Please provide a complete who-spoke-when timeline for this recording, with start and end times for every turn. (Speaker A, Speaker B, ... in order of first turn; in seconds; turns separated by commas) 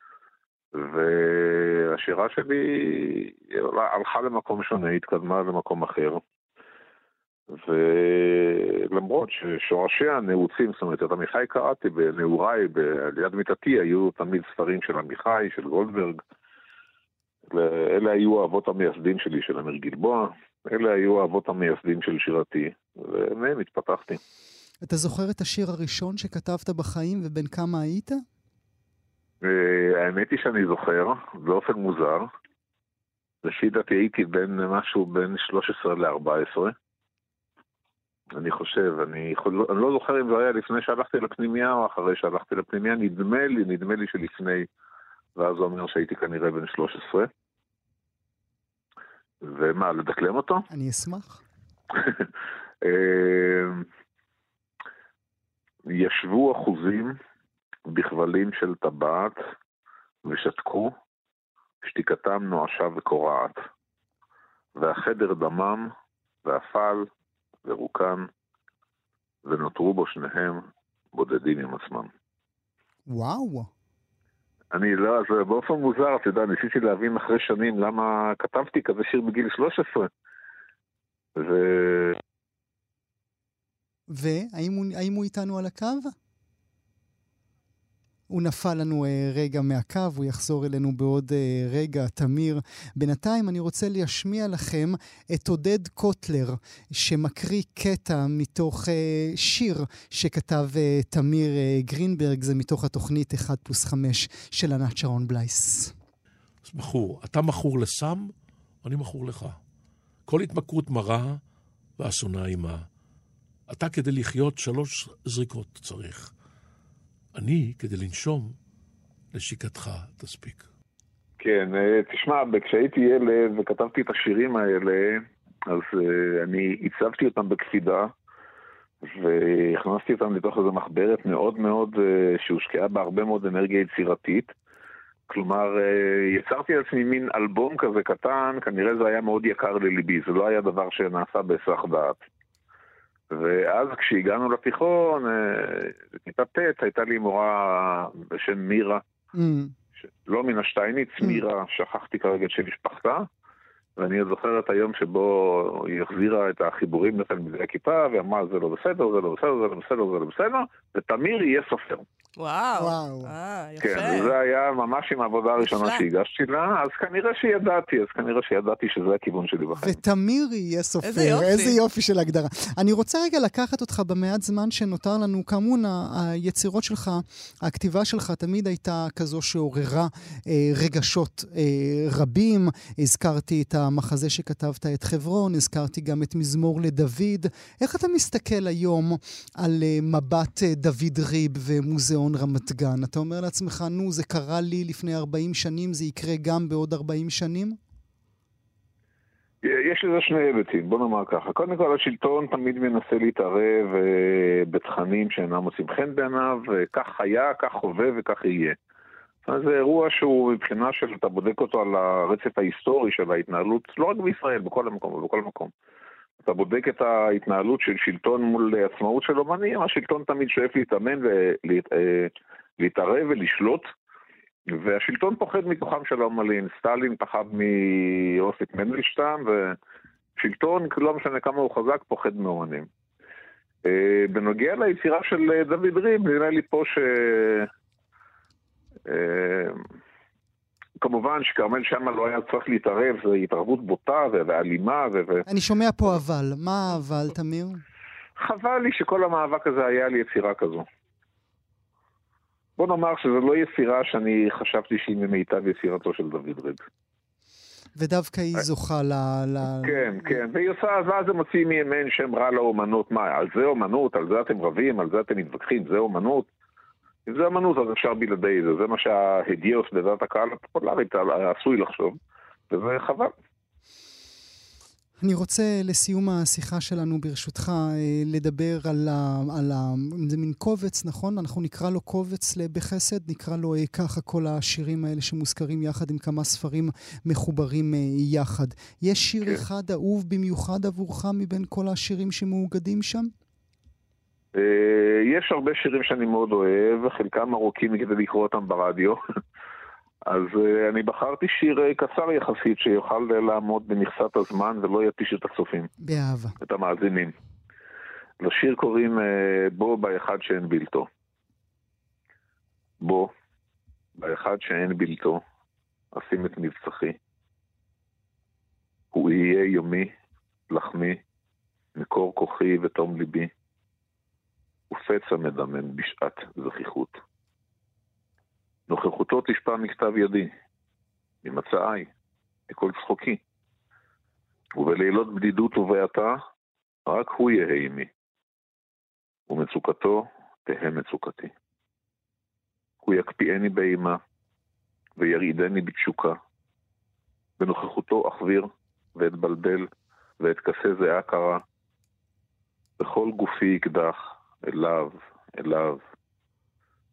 Speaker A: 0.7-6.2, Speaker A: 7.5-16.2, Speaker A: 17.5-24.2, Speaker B: 24.8-28.2, Speaker A: 29.4-32.3, Speaker A: 33.4-36.7, Speaker A: 38.4-44.7, Speaker A: 45.3-47.3, Speaker A: 49.4-50.6, Speaker B: 50.7-51.4, Speaker A: 51.9-52.3, Speaker A: 52.8-53.9, Speaker A: 55.9-57.1, Speaker A: 57.9-59.4, Speaker A: 60.2-60.9, Speaker A: 61.8-63.6, Speaker A: 64.7-65.9, Speaker A: 66.4-67.1, Speaker A: 67.6-68.3, Speaker A: 69.4-72.1, Speaker B: 73.1-73.7, Speaker A: 74.7-80.1, Speaker A: 81.3-82.2, Speaker B: 84.1-86.1, Speaker B: 88.3-105.9, Speaker C: 106.6-108.3, Speaker C: 108.8-109.6, Speaker C: 110.3-111.4, Speaker C: 112.0-112.8, Speaker C: 113.7-116.3, Speaker C: 117.3-118.5, Speaker C: 119.3-120.6, Speaker A: 121.4-128.1, Speaker A: 129.0-134.5, Speaker A: 135.3-142.2, Speaker A: 143.3-149.0, Speaker B: 149.3-149.7, Speaker A: 150.2-153.2, Speaker A: 154.0-162.0, Speaker D: 162.4-164.3, Speaker B: 162.8-163.3, Speaker A: 163.8-170.0, Speaker D: 165.6-166.0, Speaker B: 169.8-197.8, Speaker D: 171.0-171.8, Speaker A: 199.6-208.8, Speaker A: 209.4-215.7, Speaker A: 216.4-223.8, Speaker A: 224.7-229.8, Speaker A: 230.4-232.9, Speaker A: 233.8-237.7, Speaker A: 239.1-239.8, Speaker A: 241.0-245.5, Speaker B: 245.5-247.8, Speaker A: 248.4-250.8, Speaker A: 252.8-256.8, Speaker B: 257.9-260.4, Speaker A: 259.7-266.5, Speaker A: 267.2-272.2, Speaker A: 272.7-273.3, Speaker B: 275.2-293.3, Speaker A: 294.5-299.2, Speaker A: 300.3-305.9, Speaker B: 306.0-306.6, Speaker A: 306.6-307.4, Speaker A: 308.4-311.1, Speaker A: 313.0-313.3, Speaker A: 314.1-315.4, Speaker A: 316.1-317.2, Speaker A: 319.1-320.1, Speaker A: 320.7-321.2, Speaker A: 321.9-323.5, Speaker A: 324.9-327.2, Speaker A: 328.9-330.5, Speaker A: 331.4-332.1, Speaker A: 332.7-333.4, Speaker A: 334.8-336.4, Speaker A: 337.1-338.1, Speaker A: 339.5-341.5, Speaker A: 343.0-344.2, Speaker A: 345.2-346.4, Speaker A: 347.6-349.9, Speaker A: 350.4-351.6, Speaker A: 353.0-356.0